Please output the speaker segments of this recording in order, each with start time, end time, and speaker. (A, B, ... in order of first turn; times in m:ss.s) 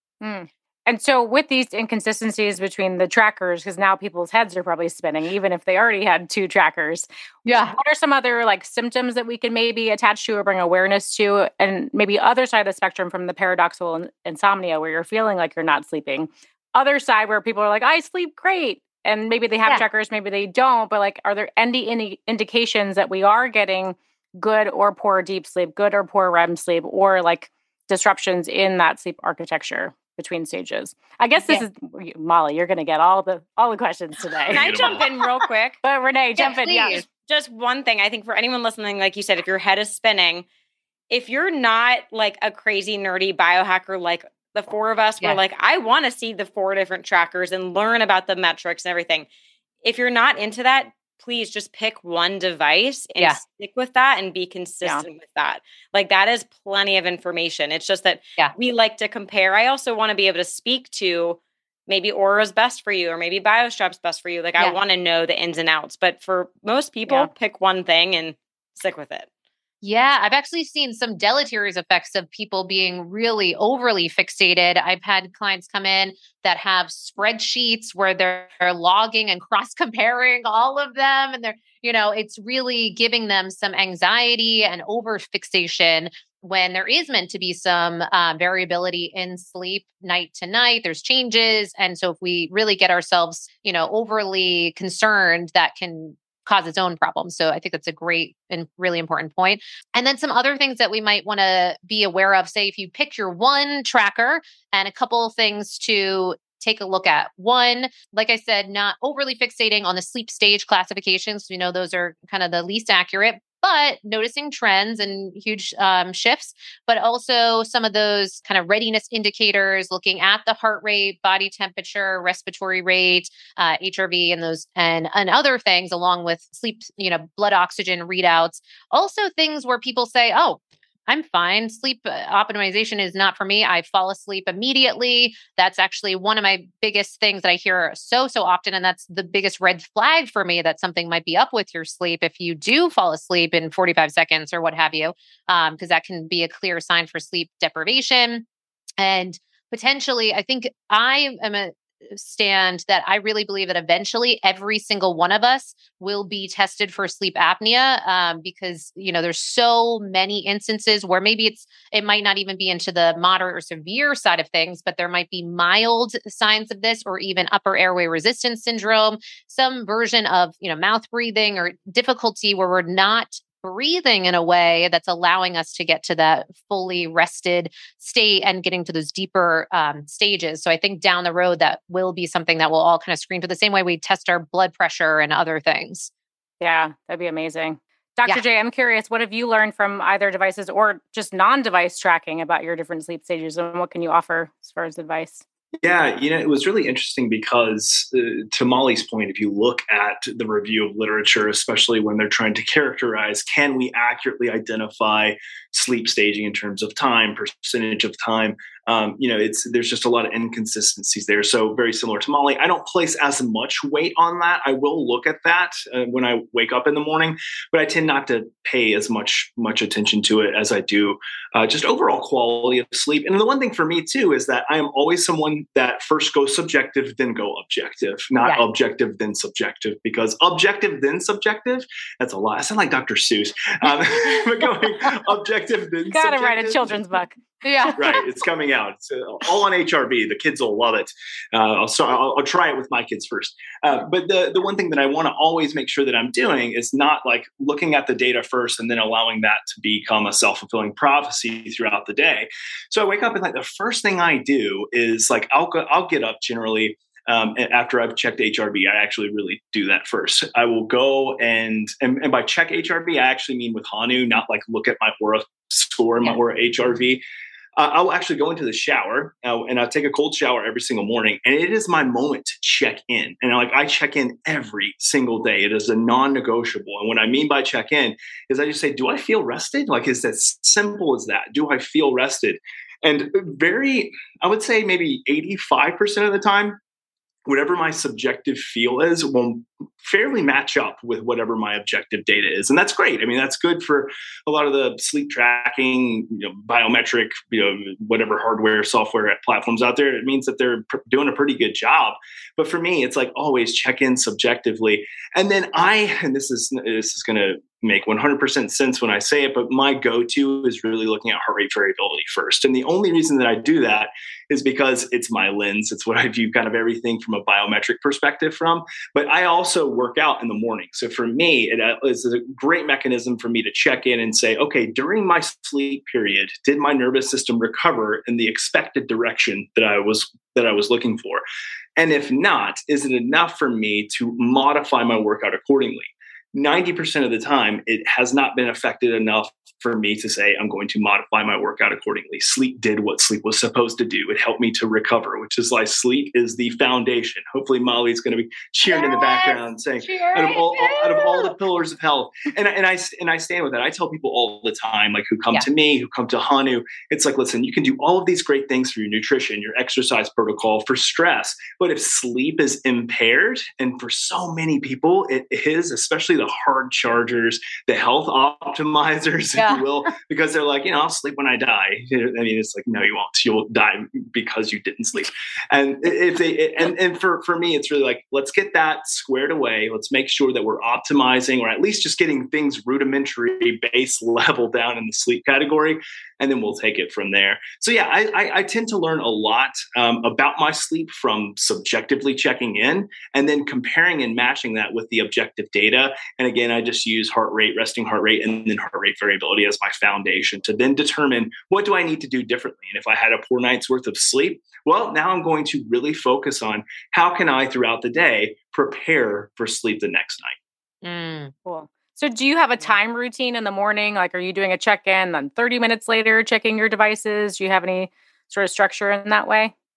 0:00.2-0:34.6 A
0:07.4-0:07.8 B
0:34.5-0:35.0 C
0:34.5-0:35.8 D
0:35.8-0:37.0 A
0:36.4-0:37.0 B
0:37.0-0:40.4 D
0:41.1-0:49.2 D
0:49.8-1:09.3 D
1:09.8-2:28.4 B
2:29.0-3:06.1 B
3:06.6-3:15.4 A
3:15.8-3:57.0 C
3:53.8-3:55.1 B
3:56.1-3:57.4 A
3:57.6-3:58.2 B
3:57.9-4:27.2 C
4:27.8-4:46.8 C
4:47.4-5:31.4 C
5:32.0-6:50.6 C
5:48.9-5:51.5 B
6:09.6-6:09.8 B
6:51.0-6:51.5 B
6:51.6-6:59.7 A